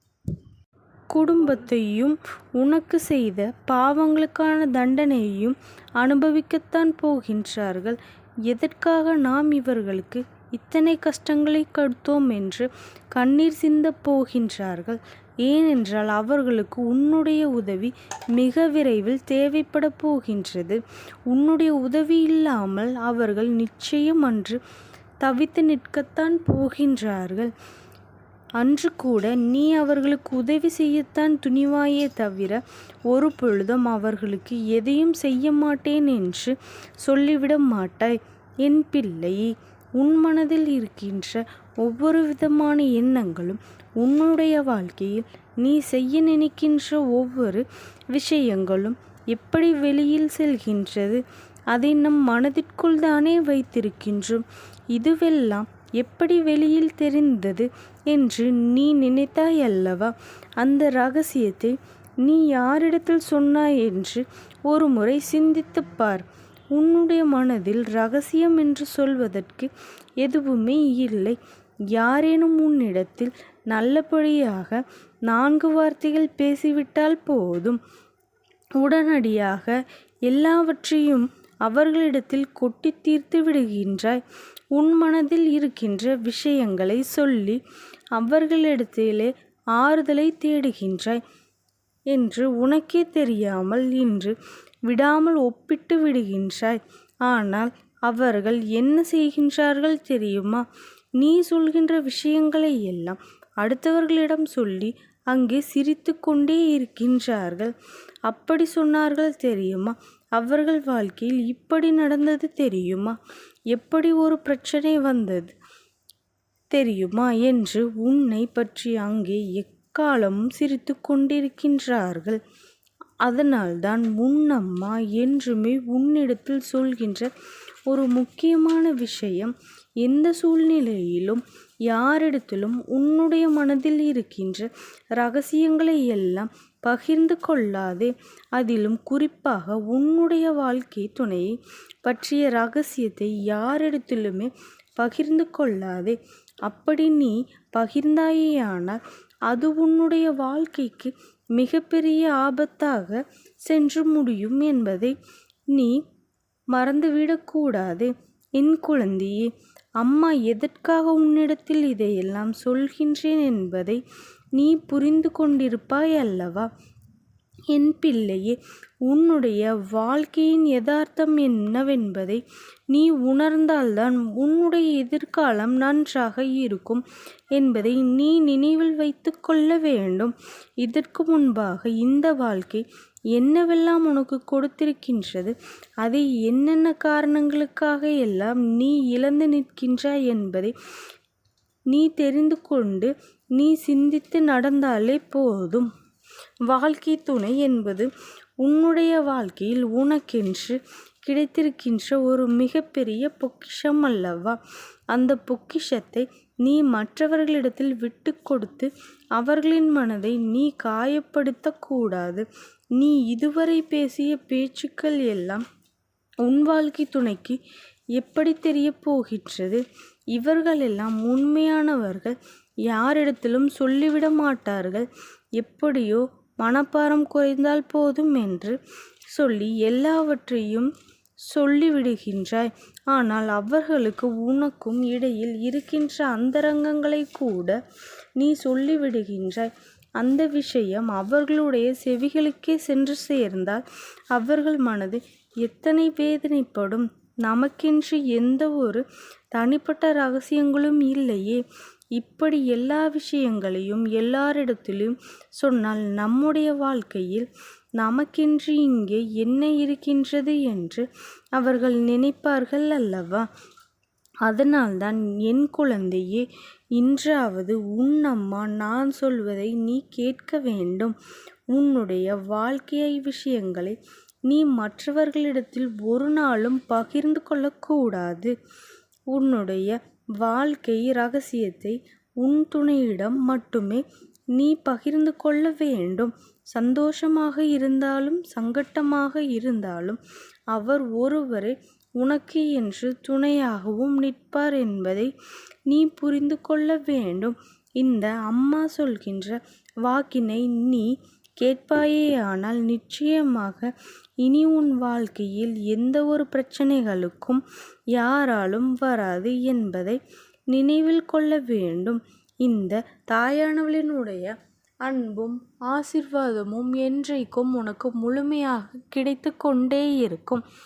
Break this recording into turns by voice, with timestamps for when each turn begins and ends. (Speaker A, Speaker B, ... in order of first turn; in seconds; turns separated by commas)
Speaker A: 1.1-24.6, Speaker A: 25.2-27.5, Speaker A: 28.6-69.7, Speaker A: 70.2-71.4, Speaker A: 71.9-77.8, Speaker A: 78.8-84.2, Speaker A: 84.7-87.6, Speaker A: 88.2-91.2, Speaker A: 92.1-100.7, Speaker A: 101.2-107.7, Speaker A: 108.3-113.2, Speaker A: 113.7-115.6, Speaker A: 116.7-122.4, Speaker A: 123.3-127.3, Speaker A: 127.9-155.2, Speaker A: 155.7-156.0, Speaker A: 156.7-164.0, Speaker A: 164.6-166.7, Speaker A: 167.7-190.7, Speaker A: 191.9-195.9, Speaker A: 196.7-198.1, Speaker A: 198.6-204.6, Speaker A: 205.1-215.6, Speaker A: 216.4-217.6, Speaker A: 218.2-228.8, Speaker A: 229.3-230.9, Speaker A: 231.5-237.8, Speaker A: 238.4-251.6, Speaker A: 252.2-263.5, Speaker A: 264.5-271.2, Speaker A: 271.7-278.6, Speaker A: 279.3-284.0, Speaker A: 284.6-290.2, Speaker A: 290.7-295.3, Speaker A: 295.9-307.6, Speaker A: 308.1-320.6